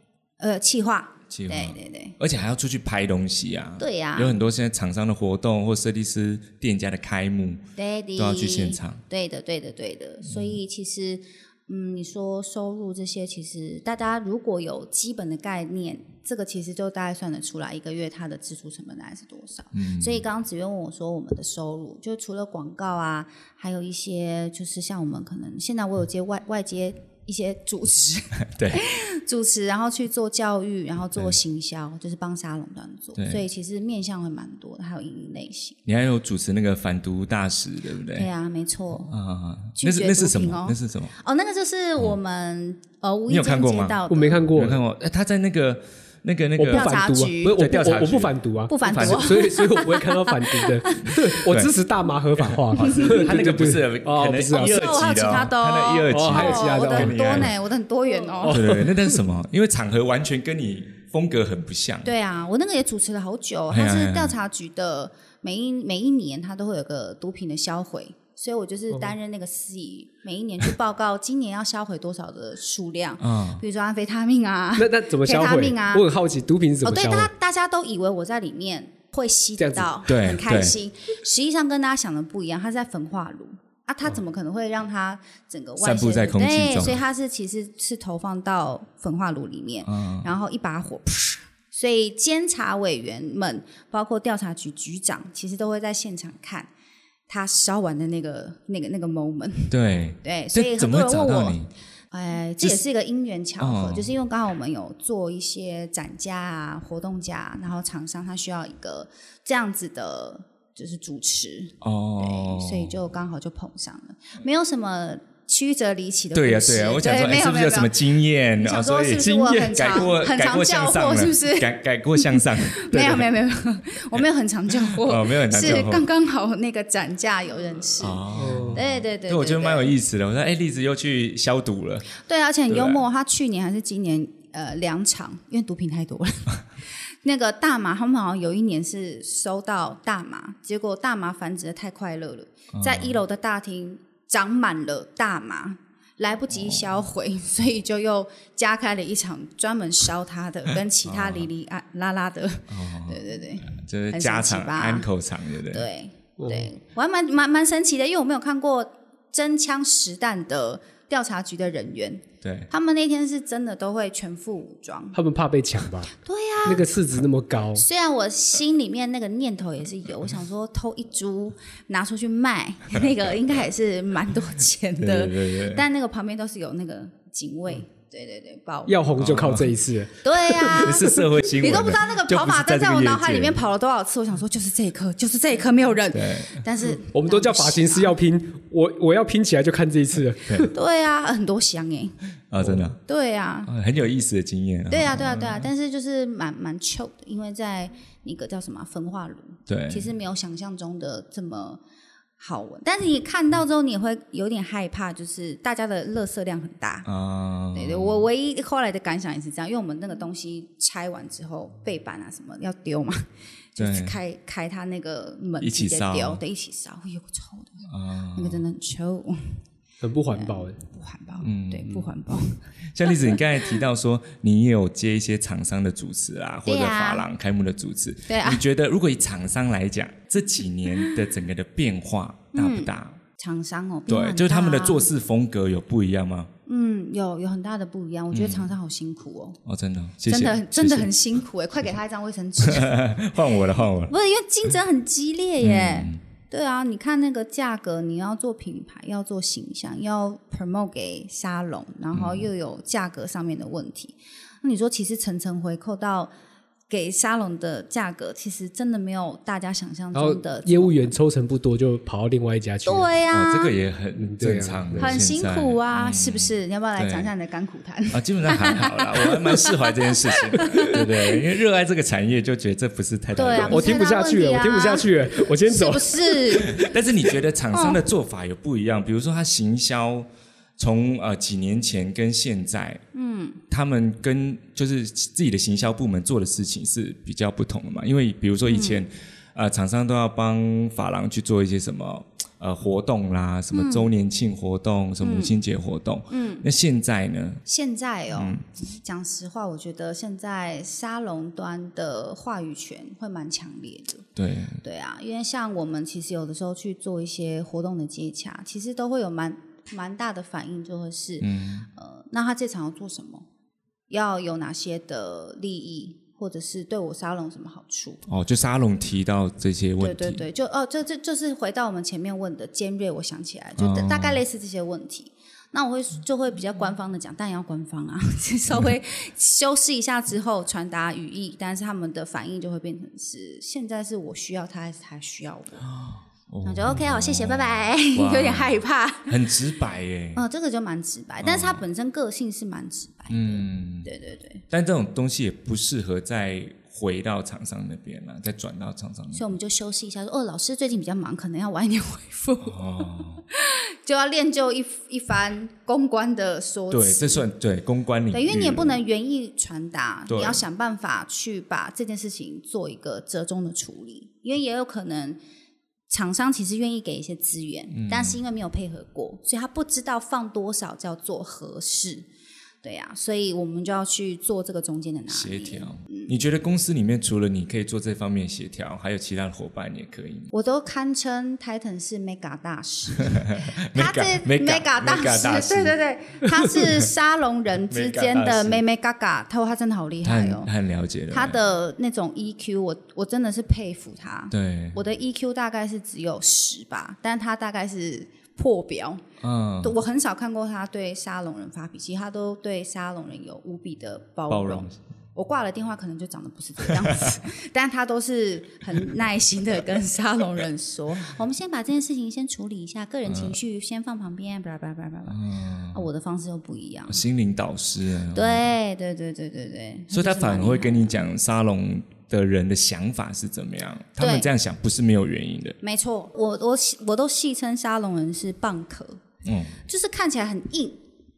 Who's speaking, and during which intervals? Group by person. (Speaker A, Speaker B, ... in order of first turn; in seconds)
Speaker A: 0.4-2.2, 3.8-4.4, 7.8-35.8, 38.1-39.1, 39.8-44.5, 46.7-47.7, 48.7-51.2, 52.8-53.3, 54.5-58.7, 62.0-76.1, 76.8-96.7, 97.3-101.6, 102.1-129.9, 132.2-155.1, 155.7-165.2, 166.2-166.9, 167.8-179.0, 180.2-188.2, 190.7-192.2, 193.1-193.7, 194.9-201.8, 202.4-207.1, 207.7-219.6, 220.3-223.7, 226.7-227.3, 228.3-228.6, 232.5-235.1, 236.7-239.6, 240.3-243.2, 244.1-256.3, 256.9-261.1, 262.9-263.8, 265.0-271.4, 273.4-276.9, 277.7-278.0, 283.1-283.6, 288.7-289.0, 293.7-294.1, 295.2-295.6, 296.3-296.6, 297.7-304.3, 304.8-313.5, 314.1-318.2, 320.0-335.9, 336.6-339.4, 340.4-344.6, 349.3-357.5, 358.3-365.4, 366.1-372.3, 372.8-376.3, 380.5-390.7, 391.3-399.2, 399.8-415.4, 415.9-417.2, 418.3-421.2, 424.2-424.5, 425.8-429.2, 429.9-431.0
Speaker B: 1.3-7.6, 8.2-9.0, 10.3-10.6, 19.7-20.2, 28.5-28.9, 33.2-33.5, 35.9-38.3, 39.1-41.1, 43.3-44.0, 44.5-49.4, 51.2-51.7, 52.4-57.5, 58.4-62.1, 63.7-64.4, 73.2-73.6, 80.0-80.8, 85.8-87.0, 89.8-90.3, 99.7-101.7, 103.6-104.1, 111.8-113.0, 116.3-123.3, 124.2-126.1, 128.0-132.2, 132.7-133.0, 142.7-143.2, 146.5-147.0, 151.0-151.5, 152.7-155.9, 162.4-162.7, 175.0-175.8, 179.2-179.7, 180.6-183.6, 186.1-186.6, 192.5-193.0, 193.7-195.7, 199.7-200.1, 207.1-208.3, 213.8-214.2, 215.6-216.4, 217.9-218.6, 221.4-222.1, 222.9-233.2, 234.1-236.5, 238.3-238.7, 239.7-241.1, 242.6-244.2, 245.6-246.2, 252.1-252.5, 263.3-267.3, 268.1-274.1, 276.6-283.0, 283.7-297.6, 298.3-298.6, 304.4-304.8, 311.4-311.9, 318.3-320.4, 323.8-324.4, 335.8-340.4, 341.4-341.8, 343.3-344.1, 344.7-349.5, 352.6-353.4, 356.9-359.0, 360.3-360.6, 367.9-368.4, 375.3-380.5, 383.2-386.0, 386.7-387.1, 387.9-388.8, 390.2-391.6, 394.5-395.0, 399.4-400.0, 404.5-405.0, 406.9-407.4, 413.3-413.6, 415.3-416.1, 417.1-418.7, 420.1-425.8, 429.4-429.8
Speaker C: 44.1-44.8, 46.6-55.0, 56.1-57.5, 58.4-59.2, 74.8-77.3, 79.6-79.9, 119.2-119.8, 128.3-128.8, 156.4-156.7, 165.1-166.1, 166.6-167.8, 178.9-180.9, 187.0-190.7, 220.0-220.8, 260.1-263.1, 264.2-265.2, 273.6-276.8